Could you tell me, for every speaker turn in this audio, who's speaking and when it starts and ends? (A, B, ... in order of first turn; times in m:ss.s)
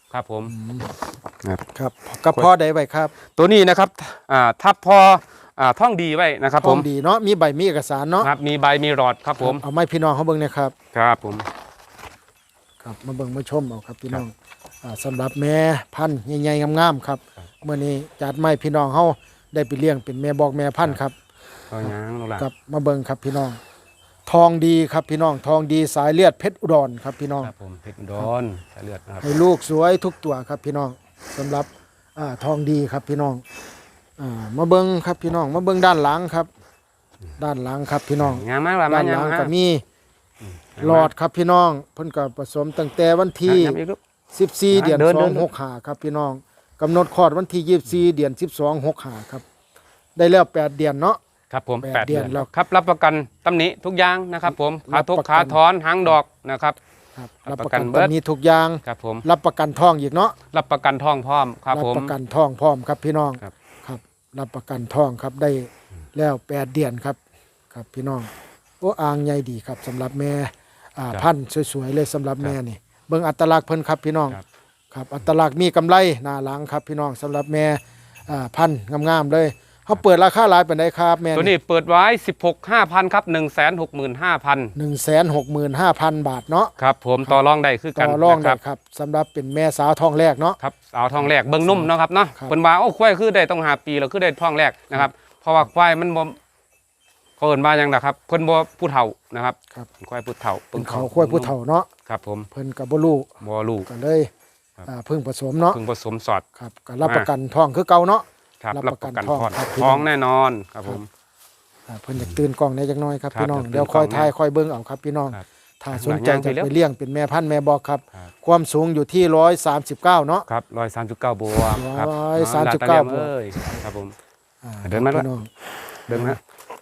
0:00.1-0:00.5 A
0:00.4-0:00.9 B
0:01.8-0:03.1 B
0:03.3-0:06.9 A
0:06.6-0:08.3 B
0:08.2-0:09.6 A
0:09.4-0:10.7 B
0:10.9-0:11.5 A
0:12.8-0:14.3 B
0:14.8-0:21.1 B
0:21.7-0:22.4 A
0:21.8-0:23.6 B
0:24.2-0:27.5 B
0:27.4-0:29.2 A
0:29.2-0:33.4 B
0:34.2-0:36.5 B
0:37.4-0:39.8 B
0:38.2-0:39.5 A
0:40.8-0:41.1 A
0:40.8-0:43.8 B
0:43.4-0:44.0 A
0:44.3-0:49.4 B
0:44.7-0:45.5 A
0:50.2-0:51.2 B
0:51.5-0:56.8 A
0:51.8-0:52.5 B
0:54.4-0:56.1 B
0:57.2-1:00.4 B
0:57.4-0:58.1 A
0:58.8-0:59.2 A
1:00.5-1:02.1 A
1:01.7-1:07.2 B
1:07.7-1:08.3 B
1:08.8-1:14.4 B
1:14.9-1:21.5 B
1:21.3-1:24.7 A
1:24.8-1:26.7 B
1:26.8-1:28.6 A
1:28.0-1:30.6 B
1:30.6-1:36.4 A
1:31.2-1:32.5 B
1:37.4-1:41.5 A
1:40.7-1:41.9 B
1:42.1-1:42.5 A
1:42.5-1:43.3 B
1:43.4-1:43.9 A
1:43.8-1:44.3 B
1:44.8-1:45.8 B
1:45.7-1:46.4 A
1:46.6-1:50.1 B
1:47.0-1:47.3 A
1:48.6-1:51.1 A
1:51.9-2:00.4 B
1:53.3-1:54.3 A
1:55.3-1:56.7 A
2:00.5-2:04.2 A
2:01.7-2:03.8 B
2:04.6-2:05.5 B
2:04.8-2:05.3 A
2:06.1-2:06.4 B
2:06.1-2:06.4 A